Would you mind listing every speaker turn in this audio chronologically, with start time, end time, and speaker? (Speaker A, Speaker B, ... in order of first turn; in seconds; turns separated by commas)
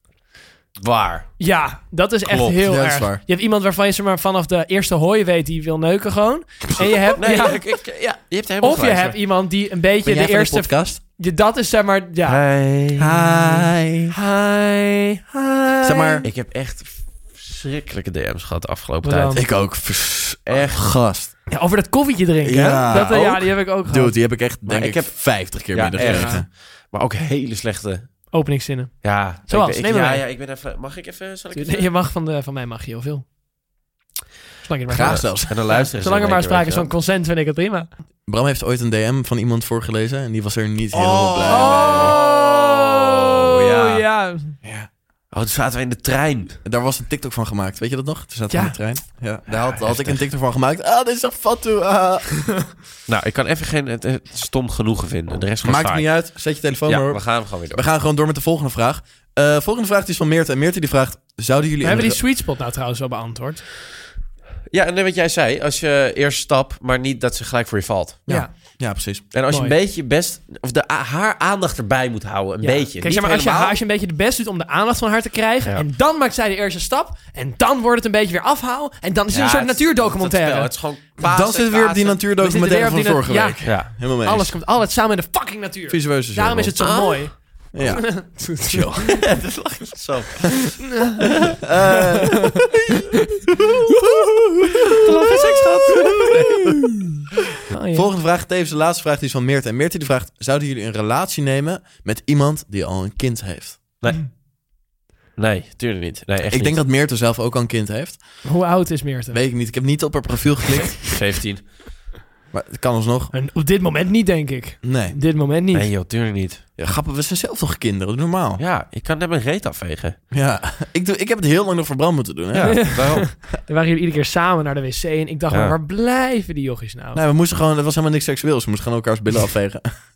Speaker A: 0.8-1.3, Speaker B: 1.4-7.8, Speaker A: 2.3-2.5, Speaker C: 2.6-3.2, Speaker A: 7.2-9.2, Speaker B: 8.6-12.4, Speaker C: 10.0-11.0, Speaker A: 12.2-13.2, Speaker C: 13.0-14.1, Speaker B: 14.1-16.2, Speaker C: 15.8-16.3, Speaker A: 16.2-19.6, Speaker B: 19.0-19.5, Speaker C: 19.3-21.4, Speaker A: 20.5-20.9, Speaker B: 21.5-24.2, Speaker C: 22.4-26.5, Speaker A: 22.9-23.3, Speaker A: 24.6-28.3, Speaker B: 26.0-26.4, Speaker B: 28.3-30.2, Speaker A: 29.0-31.9, Speaker B: 31.5-33.3, Speaker B: 34.6-37.9, Speaker C: 34.9-35.9, Speaker A: 35.0-36.9, Speaker C: 38.3-42.2, Speaker A: 41.0-44.0, Speaker B: 41.5-44.6, Speaker C: 44.6-44.9, Speaker A: 45.3-46.6, Speaker C: 46.6-52.7, Speaker B: 48.5-48.8, Speaker A: 49.5-50.2, Speaker A: 53.1-56.3, Speaker C: 55.6-62.2, Speaker A: 56.9-57.8, Speaker B: 61.8-63.6, Speaker A: 64.7-68.3, Speaker C: 68.3-69.2, Speaker B: 68.3-68.5, Speaker A: 69.3-73.8, Speaker B: 69.5-69.8, Speaker B: 72.6-80.7, Speaker A: 79.3-82.2, Speaker C: 81.2-84.6, Speaker B: 82.4-89.2, Speaker A: 83.7-83.9, Speaker C: 85.9-86.8, Speaker A: 86.8-87.7, Speaker C: 87.7-89.2, Speaker A: 88.7-91.7, Speaker B: 91.0-91.2, Speaker C: 91.7-93.0, Speaker C: 93.6-94.6, Speaker A: 95.0-96.7, Speaker C: 96.0-96.8, Speaker B: 97.7-98.1, Speaker C: 97.9-104.0, Speaker A: 104.0-104.3, Speaker A: 105.4-106.8, Speaker C: 106.5-108.4, Speaker B: 108.4-109.4, Speaker C: 109.3-111.1, Speaker A: 111.1-111.7, Speaker C: 112.5-113.3, Speaker B: 113.3-115.9, Speaker C: 114.8-115.2, Speaker A: 115.7-116.6, Speaker C: 116.8-118.6, Speaker A: 118.6-120.2, Speaker C: 120.3-123.3, Speaker A: 122.5-123.3, Speaker B: 122.6-127.2, Speaker A: 125.5-125.8, Speaker C: 127.1-129.9